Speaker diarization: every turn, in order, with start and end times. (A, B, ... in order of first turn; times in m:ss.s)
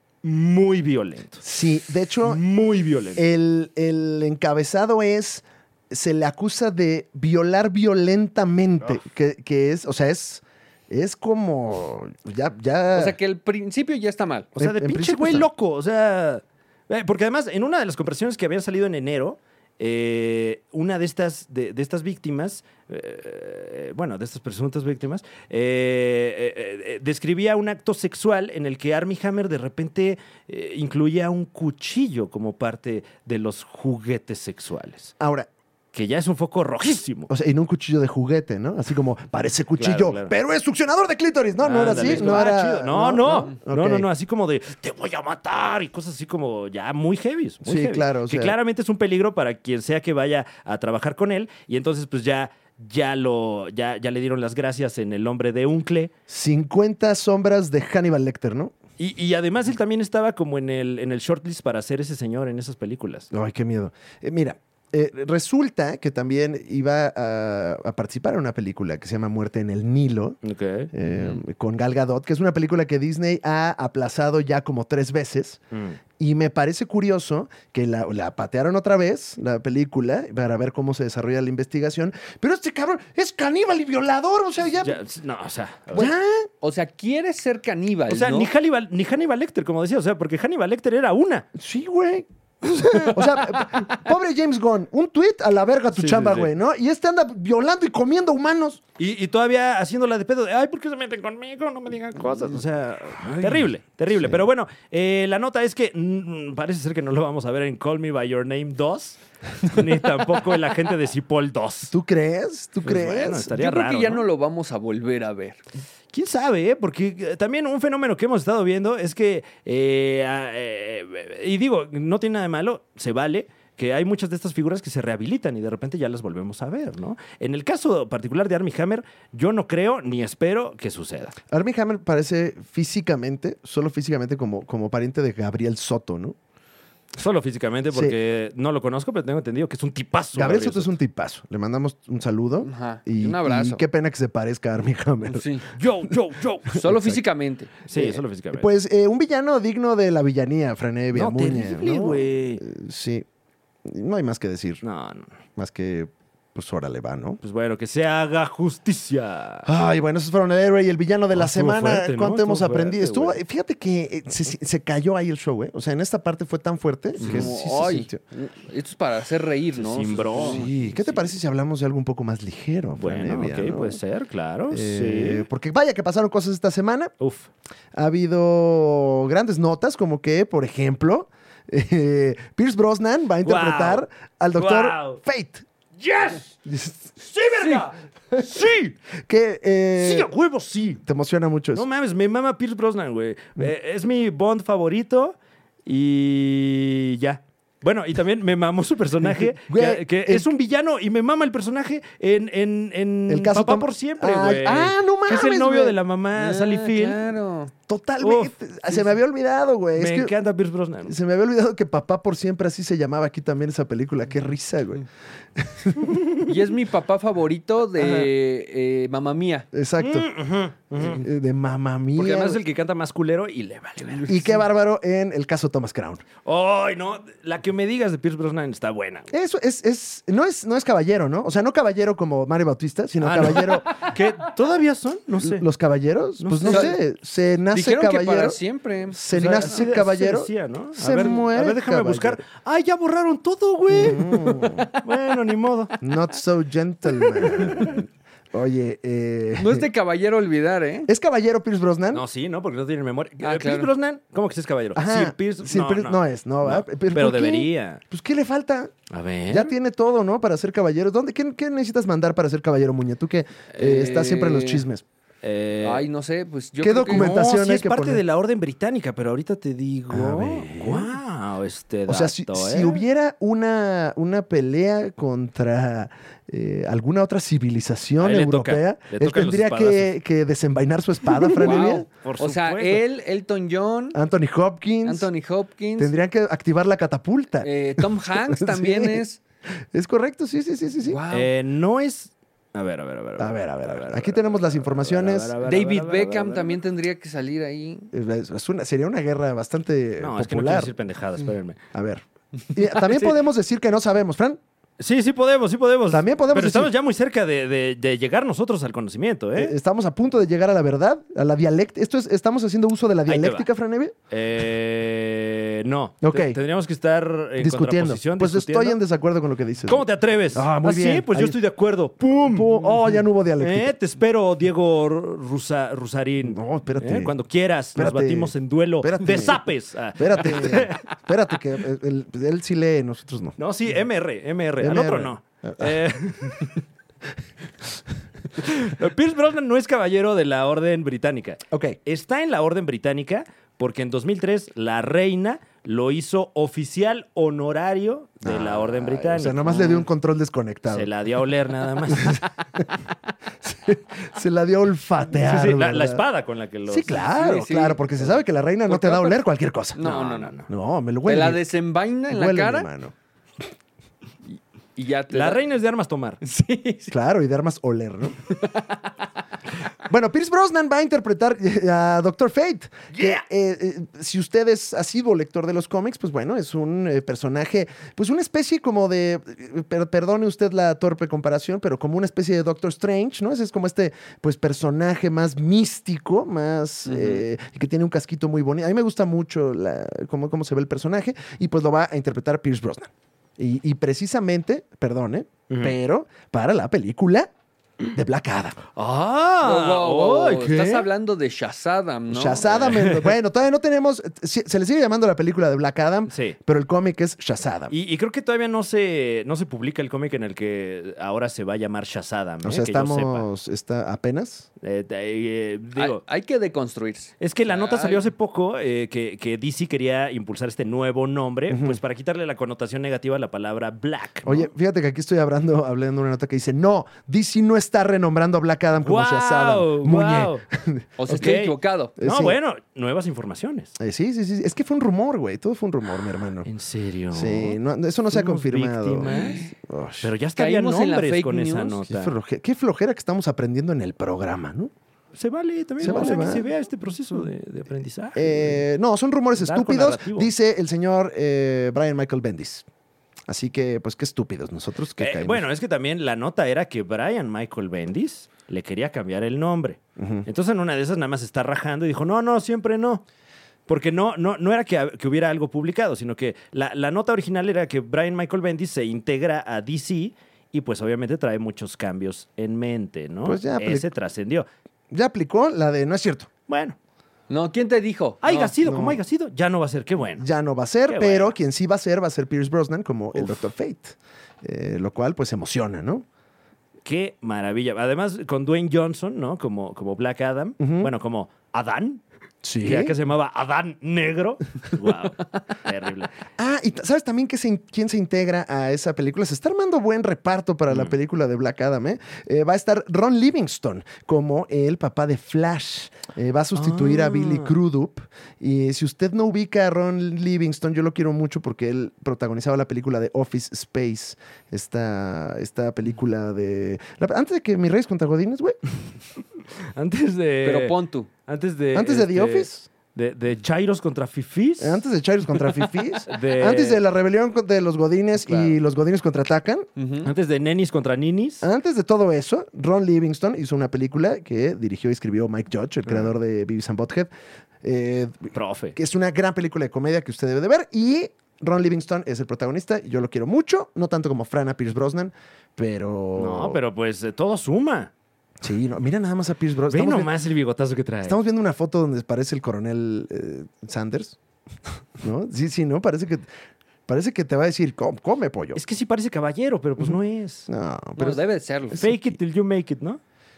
0:00.2-0:01.4 A
0:01.4-0:02.4 B
0:02.2-0:03.2 A
0:03.2-0:13.2 B
0:12.9-0:14.5 C
0:14.6-0:15.5 B
0:14.6-0:35.1 A
0:35.2-0:35.5 B
0:35.9-0:37.3 A
0:37.3-0:44.1 B
0:39.8-0:40.4 A
0:41.6-0:56.1 A
0:47.6-0:48.5 B
0:56.3-0:58.7 B
0:59.0-1:03.3 A
1:03.3-1:10.4 B
1:10.4-1:11.4 A
1:10.9-1:15.6 B
1:15.7-1:16.0 A
1:16.2-1:25.0 B
1:24.8-1:26.1 A
1:25.9-1:26.5 B
1:26.0-1:28.5 C
1:28.1-1:31.5 A
1:31.6-1:32.3 B
1:32.6-1:33.2 A
1:33.1-1:38.8 B
1:35.9-1:36.5 A
1:39.0-1:51.9 A
1:43.2-1:44.4 B
1:51.9-1:53.5 B
1:52.8-1:54.2 A
1:53.5-1:55.6 C
1:56.1-2:11.4 A
2:11.5-2:16.4 B
2:17.2-2:20.9 A
2:20.4-2:25.5 B
2:22.6-2:23.8 C
2:25.3-2:25.7 C
2:25.8-2:26.9 A
2:26.8-2:27.8 C
2:27.9-2:28.7 A
2:27.9-2:33.2 B
2:31.1-2:32.6 A
2:33.8-2:34.8 B
2:34.8-2:35.4 A
2:35.6-2:37.4 B
2:37.4-2:39.7 A
2:39.7-2:48.2 B
2:41.3-2:43.4 A
2:47.2-2:50.7 C
2:47.2-2:47.5 A
2:49.8-2:51.2 A
2:50.4-2:54.0 B
2:53.0-2:55.5 A
2:54.7-2:57.1 B
2:57.2-2:57.5 A
2:58.0-3:05.6 B
3:03.4-3:05.2 A
3:06.0-3:06.6 A
3:06.7-3:07.1 B
3:07.2-3:09.0 A
3:09.2-3:10.3 B
3:10.0-3:11.0 A
3:11.0-3:11.8 B
3:11.7-3:27.2 A
3:19.7-3:20.5 B
3:23.3-3:26.0 B
3:26.4-3:27.7 C
3:27.9-3:30.3 B
3:28.2-3:28.6 A
3:30.0-3:31.2 A
3:31.0-3:36.2 B
3:36.4-3:39.7 C
3:38.0-3:38.3 A
3:39.7-3:40.3 B
3:40.0-3:41.2 A
3:41.0-3:42.6 B
3:42.2-3:44.5 A
3:44.2-3:46.2 B
3:46.4-3:49.3 A
3:49.3-3:53.9 B
3:53.2-3:55.6 A
3:55.4-4:02.4 B
3:56.4-3:56.9 A
3:56.7-3:57.0 C
3:57.7-3:59.7 C
3:59.3-4:06.0 A
4:03.9-4:04.9 B
4:04.2-4:05.0 C
4:06.0-4:09.9 B
4:07.5-4:08.0 A
4:09.6-4:11.1 C
4:11.1-4:12.2 B
4:12.1-4:18.0 A
4:13.4-4:13.9 C
4:15.0-4:18.9 B
4:19.1-4:19.7 A
4:19.5-4:25.0 B
4:23.7-4:24.8 C
4:25.4-4:26.0 A
4:25.8-4:27.3 C
4:26.8-4:28.2 B
4:27.1-4:33.0 A
4:30.1-4:31.1 B
4:32.1-4:42.1 B
4:38.2-4:40.1 A
4:41.6-4:44.2 C
4:41.6-4:43.0 A
4:44.1-4:45.3 B
4:45.0-4:46.1 C
4:46.0-4:49.2 B
4:47.6-4:49.4 C
4:49.9-4:51.2 B
4:51.0-4:51.5 C
4:51.3-4:56.8 A
4:53.4-4:55.6 B
4:55.6-4:58.1 C
4:58.1-5:00.9 B
5:00.2-5:01.8 A
5:01.9-5:04.6 B
5:05.0-5:09.8 A
5:06.1-5:06.9 B
5:09.6-5:14.1 B
5:13.3-5:13.7 A
5:14.3-5:19.0 A
5:16.2-5:16.6 B
5:17.6-5:21.6 B
5:19.9-5:22.8 A
5:22.3-5:24.0 B
5:23.6-5:31.1 A
5:26.4-5:27.3 B
5:28.0-5:33.6 B
5:33.6-5:36.8 A
5:34.8-5:36.0 B
5:38.5-5:50.0 A
5:41.7-5:42.0 B
5:48.4-5:51.1 B
5:50.9-5:52.5 A
5:52.1-5:52.8 B
5:53.6-5:56.2 B
5:55.4-5:57.3 A
5:56.9-6:00.0 B
5:57.1-5:59.4 C
5:59.9-6:00.6 C
6:00.0-6:00.7 A
6:00.7-6:01.6 B
6:01.2-6:02.9 C
6:02.3-6:03.1 B
6:05.0-6:05.6 C
6:05.3-6:06.4 A
6:06.4-6:07.1 C
6:07.1-6:08.4 B
6:08.4-6:09.0 C
6:10.1-6:37.5 B
6:13.1-6:13.4 A
6:27.1-6:27.4 C
6:35.7-6:36.0 A
6:38.2-6:38.8 B
6:39.0-6:41.1 A
6:39.6-6:42.7 C
6:42.3-6:47.9 B
6:42.7-6:43.3 A
6:46.3-6:46.6 A
6:47.9-6:53.5 A
6:52.6-6:54.7 B
6:54.8-6:56.2 A
6:56.0-6:58.3 C
6:57.4-7:04.7 A
7:01.7-7:02.0 B
7:04.4-7:11.6 B
7:09.0-7:10.6 A
7:11.2-7:12.1 C
7:11.3-7:14.0 A
7:12.2-7:12.6 B
7:14.0-7:16.7 B
7:16.6-7:19.7 A
7:17.3-7:20.3 B
7:19.2-7:19.7 C
7:20.2-7:22.3 A
7:20.6-7:22.0 C
7:22.1-7:24.9 B
7:25.4-7:28.8 A
7:26.0-7:26.7 B
7:28.4-7:32.9 B
7:29.6-7:30.5 A
7:33.5-7:35.6 B
7:35.2-7:43.2 A
7:40.2-7:40.5 B
7:43.9-7:54.7 A
7:53.4-7:54.1 B
7:55.1-7:56.5 B
7:56.7-7:57.0 A
7:57.5-7:58.8 C
7:58.4-8:00.4 A
7:58.8-7:59.2 B
8:00.4-8:06.3 B
8:01.1-8:01.6 A
8:03.3-8:03.6 A
8:07.0-8:12.2 A
8:10.8-8:11.1 B
8:12.6-8:13.2 B
8:12.8-8:16.3 A
8:16.6-8:38.8 B
8:26.8-8:27.7 A
8:39.9-8:41.0 A
8:40.6-8:41.3 C
8:41.5-8:45.0 A
8:41.9-8:42.9 B
8:44.8-8:49.9 B
8:46.3-8:47.0 A
8:48.4-8:48.8 A
8:50.0-8:50.3 C
8:50.2-8:51.7 A
8:51.6-8:57.3 B
8:57.8-9:06.8 B
8:58.5-8:59.0 A
9:06.4-9:08.1 A
9:08.6-9:10.3 B
9:09.9-9:11.4 A
9:11.2-9:14.4 B
9:15.2-9:16.5 B
9:17.1-9:18.8 B
9:18.8-9:20.7 A
9:20.7-9:22.4 B
9:21.2-9:22.0 C
9:22.0-9:23.2 A